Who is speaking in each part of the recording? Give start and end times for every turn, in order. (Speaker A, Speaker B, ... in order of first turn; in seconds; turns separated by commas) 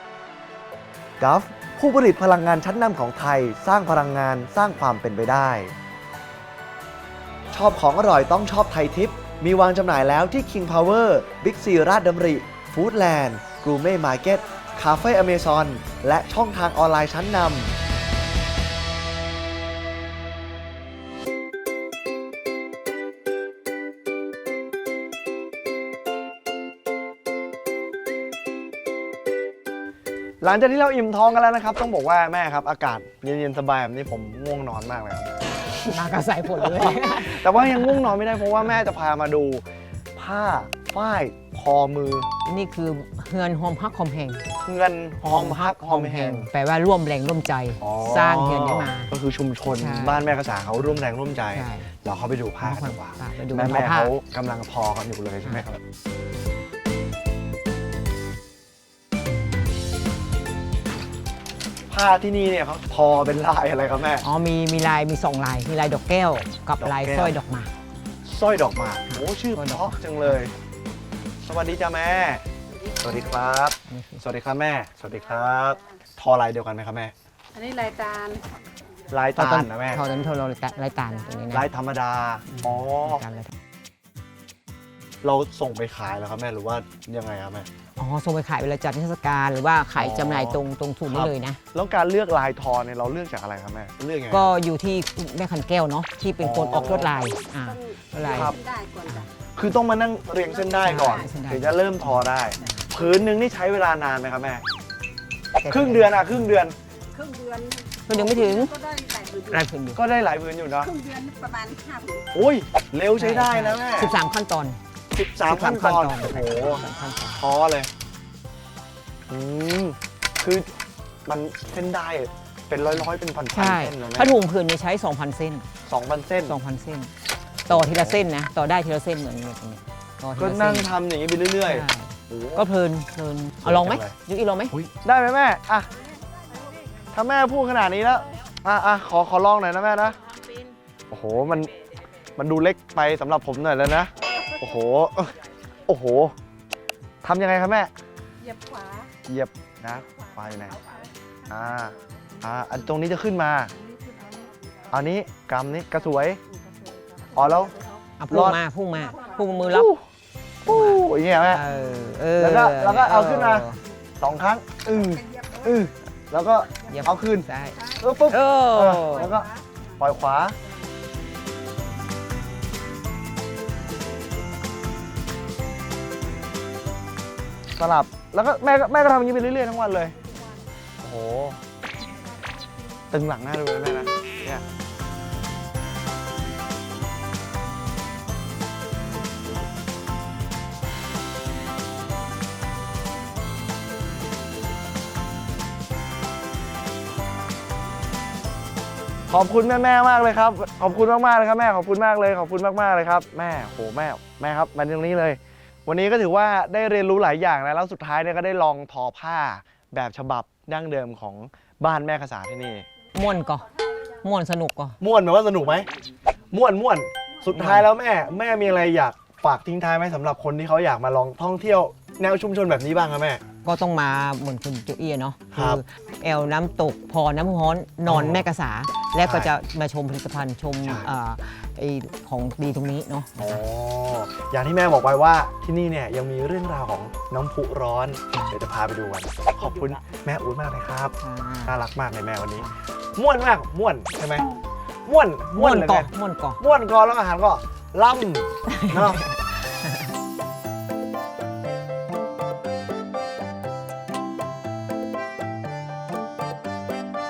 Speaker A: 1.2-5.7, Speaker A: 7.5-17.7, Speaker A: 30.4-35.5, Speaker B: 35.7-38.8, Speaker A: 36.6-42.3, Speaker B: 42.5-44.4, Speaker A: 44.6-46.5, Speaker B: 45.2-49.1, Speaker A: 47.8-55.8, Speaker B: 49.7-50.9, Speaker B: 51.5-51.9, Speaker B: 52.6-54.1, Speaker A: 61.9-64.3, Speaker B: 64.2-67.7, Speaker A: 66.8-67.4, Speaker A: 68.2-70.5, Speaker B: 69.1-70.4, Speaker A: 71.4-72.4, Speaker A: 73.0-77.1, Speaker B: 73.9-74.2, Speaker C: 77.5-78.6, Speaker A: 79.1-80.0, Speaker B: 79.4-81.7, Speaker A: 81.5-83.2, Speaker B: 82.5-83.5, Speaker A: 85.2-87.7, Speaker B: 88.0-91.6, Speaker A: 90.0-94.5, Speaker B: 94.3-98.5, Speaker A: 96.4-97.1, Speaker C: 97.9-99.2, Speaker A: 98.3-98.6, Speaker A: 99.5-104.6, Speaker C: 100.7-101.0, Speaker B: 100.8-102.8, Speaker B: 105.6-106.6, Speaker A: 105.7-106.8, Speaker C: 107.1-109.6, Speaker B: 108.1-108.8, Speaker B: 109.5-110.0, Speaker A: 110.0-110.9, Speaker C: 110.9-112.3, Speaker A: 112.3-114.1, Speaker B: 113.1-114.8, Speaker A: 115.1-116.8, Speaker B: 115.5-117.5, Speaker A: 117.4-117.9, Speaker A: 119.3-120.7, Speaker A: 121.2-124.3, Speaker B: 122.9-125.7, Speaker A: 125.9-126.6, Speaker B: 126.5-127.1, Speaker A: 127.7-128.2, Speaker B: 127.7-130.9, Speaker A: 130.4-132.7, Speaker B: 131.7-134.9, Speaker A: 133.6-134.2, Speaker A: 134.8-135.9, Speaker A: 137.1-140.2, Speaker A: 141.1-141.8, Speaker A: 142.4-146.3, Speaker A: 147.2-147.9, Speaker C: 148.5-149.1, Speaker A: 149.3-150.9, Speaker A: 151.5-153.7, Speaker C: 154.2-154.5, Speaker A: 154.9-156.4, Speaker A: 157.3-157.7, Speaker B: 158.2-159.9, Speaker A: 158.3-158.6, Speaker A: 159.7-160.0, Speaker A: 160.7-161.6, Speaker B: 160.7-163.8, Speaker A: 162.4-163.7, Speaker A: 164.2-167.5, Speaker C: 165.2-165.7, Speaker B: 166.9-169.3, Speaker A: 168.0-170.6, Speaker C: 169.3-169.8, Speaker A: 177.8-180.2, Speaker A: 181.0-181.6, Speaker A: 183.1-184.6, Speaker A: 199.3-212.9, Speaker B: 213.1-215.0, Speaker A: 215.0-215.9, Speaker A: 216.5-223.4, Speaker B: 217.5-217.9, Speaker B: 223.6-233.6, Speaker A: 225.5-225.8, Speaker A: 228.1-228.4, Speaker A: 229.2-229.5, Speaker A: 230.8-231.1, Speaker A: 233.4-244.5, Speaker B: 241.2-241.8, Speaker A: 245.1-249.2, Speaker B: 245.6-246.6, Speaker B: 248.7-250.1